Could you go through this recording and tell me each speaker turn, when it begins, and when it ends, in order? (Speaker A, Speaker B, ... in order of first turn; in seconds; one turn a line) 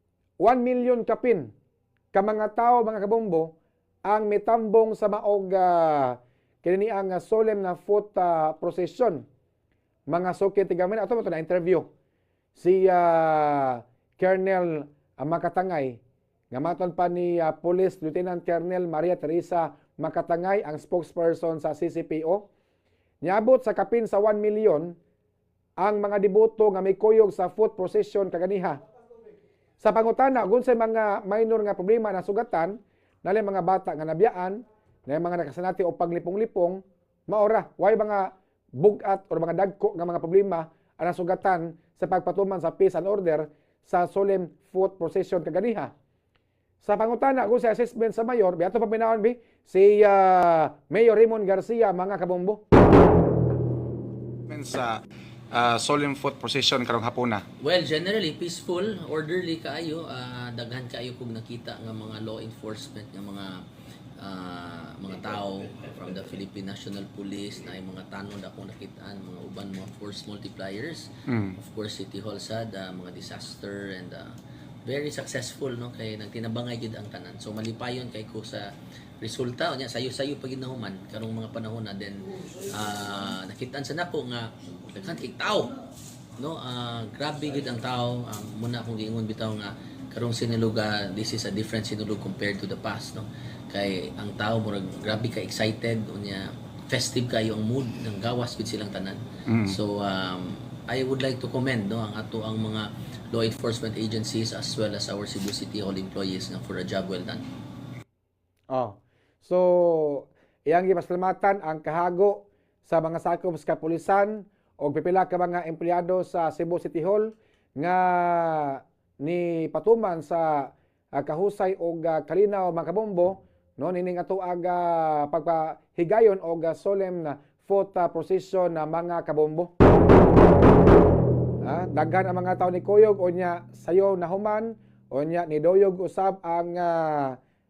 Speaker A: 0.4-1.5
Speaker A: 2.1-3.5
Speaker A: 4.0-9.2
Speaker A: 10.1-11.9
Speaker A: 12.6-16.0
Speaker A: 16.5-22.5
Speaker A: 23.2-24.9
Speaker A: 25.8-28.8
Speaker A: 29.8-45.9
Speaker A: 46.8-52.6
Speaker B: 54.5-55.0
Speaker B: 55.5-57.4
Speaker C: 57.6-63.5
Speaker C: 64.2-74.3
Speaker B: 71.3-71.6
Speaker C: 74.9-78.7
Speaker C: 79.2-85.7
Speaker C: 86.4-107.4
Speaker B: 99.5-99.8
Speaker A: 108.7-129.7
Speaker A: 131.6-137.4